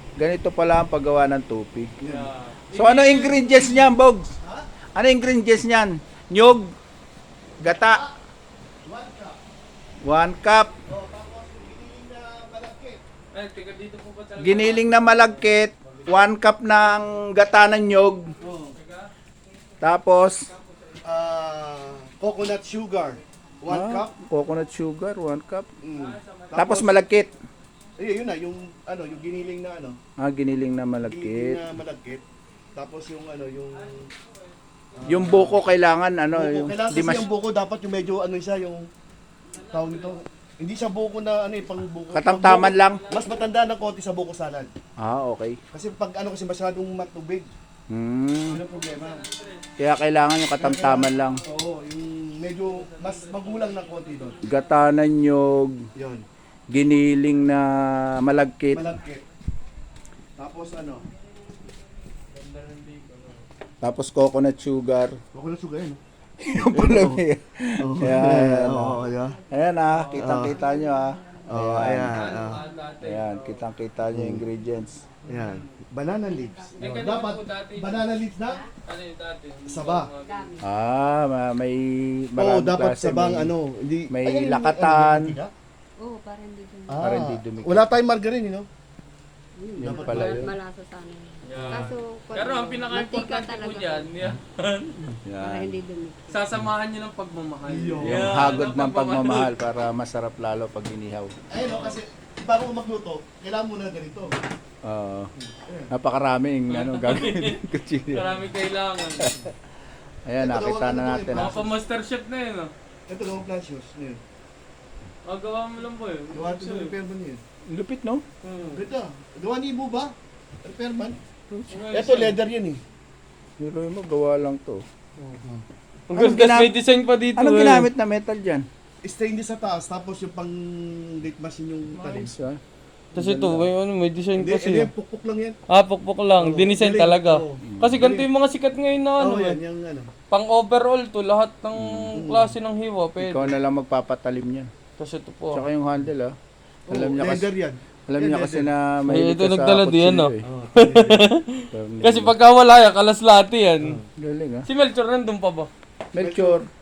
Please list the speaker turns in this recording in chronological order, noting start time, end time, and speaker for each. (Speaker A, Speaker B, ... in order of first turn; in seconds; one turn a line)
Speaker A: 0.2-1.9
Speaker B: 2.0-2.3
Speaker C: 2.0-3.8
Speaker A: 2.7-4.3
Speaker B: 4.4-4.7
Speaker A: 5.0-6.7
Speaker A: 7.6-8.1
Speaker B: 7.7-8.1
Speaker B: 8.8-9.4
Speaker A: 10.0-10.7
Speaker B: 10.9-13.0
Speaker C: 13.3-15.6
Speaker A: 14.4-18.3
Speaker B: 18.4-18.8
Speaker C: 18.6-19.1
Speaker A: 19.8-20.5
Speaker B: 21.0-24.2
Speaker A: 23.7-25.7
Speaker B: 25.8-27.0
Speaker C: 25.9-26.9
Speaker A: 26.5-27.4
Speaker B: 28.0-30.0
Speaker A: 30.2-31.6
Speaker B: 31.0-32.2
Speaker B: 32.8-34.1
Speaker C: 33.7-35.6
Speaker B: 35.0-35.6
Speaker A: 35.1-37.3
Speaker B: 36.3-38.9
Speaker C: 39.5-40.3
Speaker B: 39.7-44.7
Speaker A: 42.1-43.0
Speaker C: 42.6-43.5
Speaker A: 45.0-45.6
Speaker B: 45.7-47.5
Speaker A: 47.9-48.6
Speaker B: 48.5-49.2
Speaker C: 48.7-49.7
Speaker A: 49.8-51.4
Speaker B: 50.6-54.4
Speaker C: 51.1-51.8
Speaker C: 52.6-54.9
Speaker A: 54.4-55.8
Speaker B: 56.0-56.2
Speaker A: 56.7-59.0
Speaker B: 58.7-59.2
Speaker B: 60.4-61.0
Speaker C: 62.3-63.4
Speaker A: 63.8-65.2
Speaker B: 65.3-66.0
Speaker A: 66.4-72.2
Speaker B: 66.6-67.2
Speaker B: 67.8-69.4
Speaker D: 68.8-69.5
Speaker C: 69.9-70.4
Speaker B: 70.1-70.7
Speaker D: 70.4-71.6
Speaker B: 71.5-72.6
Speaker C: 72.0-73.7
Speaker D: 72.4-72.7
Speaker A: 73.0-75.0
Speaker B: 74.1-74.5
Speaker D: 74.5-75.4
Speaker C: 75.3-75.8
Speaker B: 75.3-78.7
Speaker D: 76.2-77.1
Speaker C: 76.8-78.1
Speaker C: 78.8-80.6
Speaker B: 79.7-80.1
Speaker D: 80.2-80.7
Speaker A: 80.6-83.5
Speaker B: 82.4-85.5
Speaker A: 84.1-85.4
Speaker D: 86.0-87.1
Speaker B: 86.9-88.7
Speaker A: 87.0-87.9
Speaker D: 89.6-94.1
Speaker B: 89.8-90.6
Speaker A: 89.8-90.5
Speaker C: 91.4-95.1
Speaker A: 95.2-95.8
Speaker D: 95.4-96.4
Speaker C: 96.3-99.5
Speaker B: 97.7-98.7
Speaker A: 98.0-101.3
Speaker B: 101.5-104.4
Speaker C: 101.6-102.0
Speaker A: 104.8-105.3
Speaker A: 105.9-108.4
Speaker C: 106.7-109.3
Speaker A: 110.3-111.6
Speaker B: 110.4-111.8
Speaker C: 111.3-112.7
Speaker B: 113.1-114.2
Speaker C: 115.2-116.9
Speaker B: 116.3-117.4
Speaker A: 117.7-118.2
Speaker C: 118.4-118.8
Speaker B: 118.7-121.2
Speaker C: 121.7-122.4
Speaker B: 121.9-122.8
Speaker A: 123.6-124.8
Speaker C: 126.1-127.9
Speaker A: 126.1-126.8
Speaker A: 127.4-128.7
Speaker B: 129.0-132.3
Speaker A: 131.9-132.6
Speaker A: 133.1-133.7
Speaker C: 133.2-134.9
Speaker B: 134.4-135.6
Speaker C: 135.7-139.6
Speaker B: 136.4-138.3
Speaker A: 137.6-138.0
Speaker B: 139.2-140.1
Speaker C: 140.3-143.6
Speaker A: 141.7-142.1
Speaker B: 142.1-142.6
Speaker A: 143.2-144.7
Speaker C: 145.0-145.7
Speaker A: 145.5-146.3
Speaker B: 146.9-148.7
Speaker A: 146.9-147.5
Speaker A: 148.1-150.5
Speaker C: 149.1-154.0
Speaker B: 150.4-151.3
Speaker A: 151.7-152.3
Speaker A: 154.2-154.7
Speaker C: 154.7-155.7
Speaker A: 156.1-156.7
Speaker B: 156.2-156.7